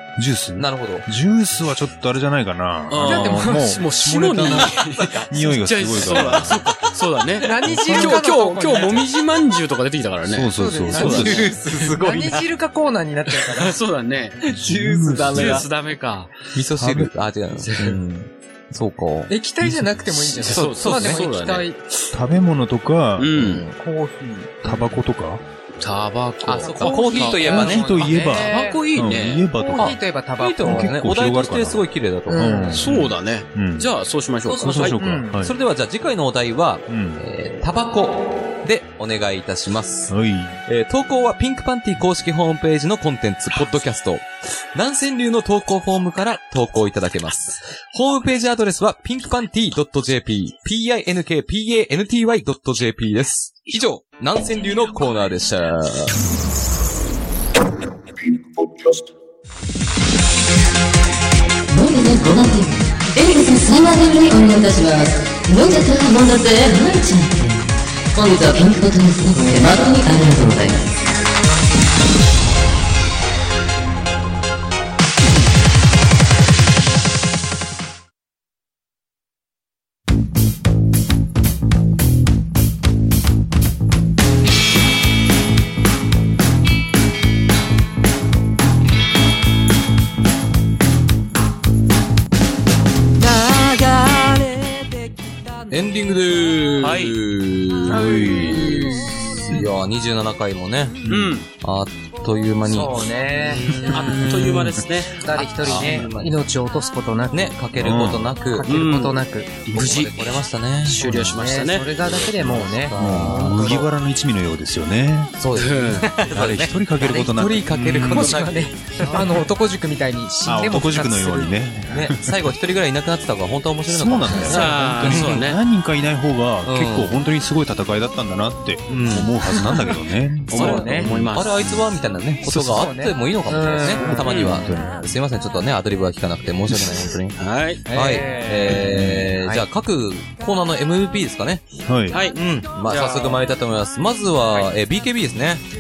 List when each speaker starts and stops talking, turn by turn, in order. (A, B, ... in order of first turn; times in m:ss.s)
0:00.2-0:06.7 A
0:00.6-0:01.1 B
0:02.9-0:11.4 C
0:03.0-0:03.8 D
0:04.5-0:05.3 B
0:06.1-0:06.5 B
0:07.4-0:09.0 D
0:07.7-0:08.2 A
0:10.2-0:11.6 A
0:10.6-0:13.7 D
0:10.9-0:12.4 B
0:13.5-0:14.4 C
0:14.4-0:15.7 B
0:14.5-0:15.7 A
0:15.3-0:16.3 C
0:16.5-0:19.3 B
0:16.8-0:17.1 A
0:17.6-0:18.0 C
0:19.3-0:21.8 D
0:19.6-0:20.0 A
0:20.4-0:21.7 C
0:20.5-0:21.2 B
0:22.1-0:23.5 A
0:23.2-0:23.7 C
0:23.8-0:24.5 D
0:24.6-0:25.4 A
0:25.8-0:29.5 C
0:26.4-0:28.2 B
0:26.6-0:28.8 D
0:27.5-0:30.0 A
0:29.5-0:30.9 D
0:29.8-0:32.8 B
0:30.6-0:33.9 A
0:32.3-0:32.8 D
0:32.7-0:35.0 C
0:34.5-0:40.1 B
0:34.6-0:35.6 A
0:35.0-0:35.4 D
0:36.9-0:37.2 A
0:40.1-0:40.6 A
0:40.6-0:56.2 B
1:01.7-1:10.9 E
1:35.7-1:41.0 B
1:36.8-1:37.2 C
1:37.8-1:38.9 A
1:38.2-1:39.2 D
1:41.0-1:41.4 A
1:41.1-1:41.5 C
1:41.6-1:44.7 B
1:42.6-1:43.7 D
1:43.7-1:45.2 C
1:44.1-1:44.8 A
1:45.2-1:47.5 D
1:45.3-1:46.4 B
1:47.3-1:48.7 B
1:47.8-1:48.3 A
1:48.5-1:49.5 D
1:48.6-1:51.9 C
1:49.7-1:51.0 B
1:50.9-1:53.9 D
1:52.0-1:53.8 B
1:52.5-1:55.3 A
1:55.4-1:59.3 B
1:55.5-1:56.1 C
1:56.3-1:58.4 A
1:57.8-2:01.5 D
2:00.4-2:02.4 A
2:01.9-2:05.5 B
2:03.8-2:11.5 A
2:04.4-2:05.6 C
2:06.6-2:07.2 B
2:08.9-2:09.5 B
2:10.5-2:11.7 C
2:10.5-2:11.0 D
2:10.5-2:17.4 B
2:12.4-2:14.7 D
2:14.0-2:15.0 A
2:14.0-2:14.6 C
2:17.4-2:17.8 C
2:17.9-2:19.6 D
2:17.9-2:21.6 B
2:18.7-2:19.4 A
2:21.8-2:22.2 A
2:22.1-2:23.4 C
2:22.3-2:25.6 B